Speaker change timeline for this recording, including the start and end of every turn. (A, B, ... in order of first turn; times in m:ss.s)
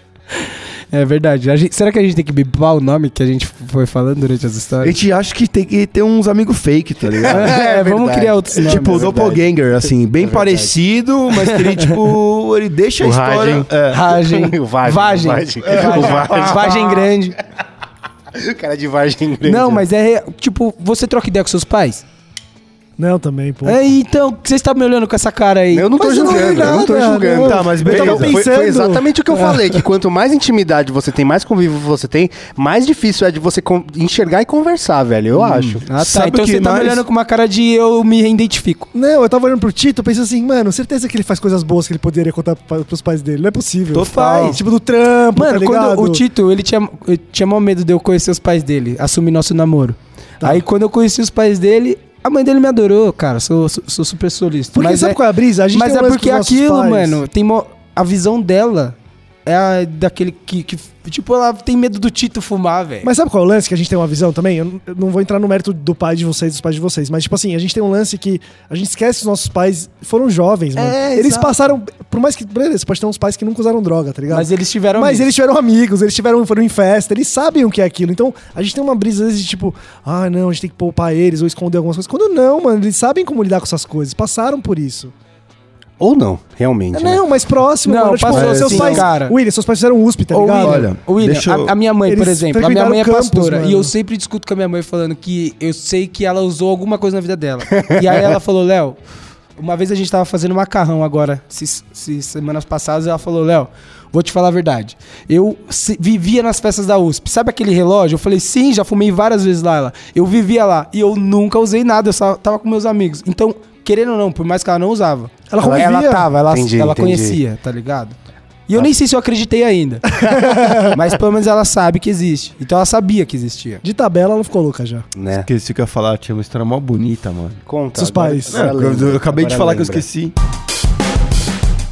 0:00.3-0:05.0 A
0:04.8-0:07.6 B
0:07.2-0:09.4 C
0:07.3-0:09.1 A
0:08.6-0:14.2 B
0:10.2-0:10.7 C
0:11.4-0:11.9 A
0:13.0-0:17.0 C
0:13.9-0:17.4 A
0:15.6-0:17.0 B
0:18.3-0:19.8 C
0:19.4-0:22.0 A
0:23.0-0:23.8 D
0:23.6-0:26.4 A
0:25.7-0:35.8 C
0:26.0-0:29.1 D
0:27.3-0:28.4 B
0:35.4-0:37.0 B
0:35.8-0:38.9 A
0:38.9-0:46.2 D
0:43.9-0:44.6 B
0:43.9-0:44.6 A
0:45.3-0:55.2 A
0:54.7-0:57.2 D
0:55.7-1:03.1 A
1:03.0-1:25.1 D
1:10.8-1:11.7 A
1:14.3-1:15.3 A
1:26.0-1:27.2 C
1:26.9-1:30.8 D
1:27.8-1:29.3 A
1:28.3-1:29.0 B
1:30.3-1:39.0 A
1:30.6-1:31.7 B
1:32.0-1:33.9 D
1:39.6-1:58.2 A
1:55.5-1:56.3 D
1:55.6-1:55.9 C
1:56.5-1:57.4 C
1:58.7-2:00.2 A
2:00.2-2:00.9 D
2:00.8-2:03.8 A
2:03.8-2:05.0 D
2:05.2-2:05.5 C
2:05.4-2:07.6 B
2:07.7-2:10.0 C
2:08.0-2:08.6 D
2:08.5-2:10.3 B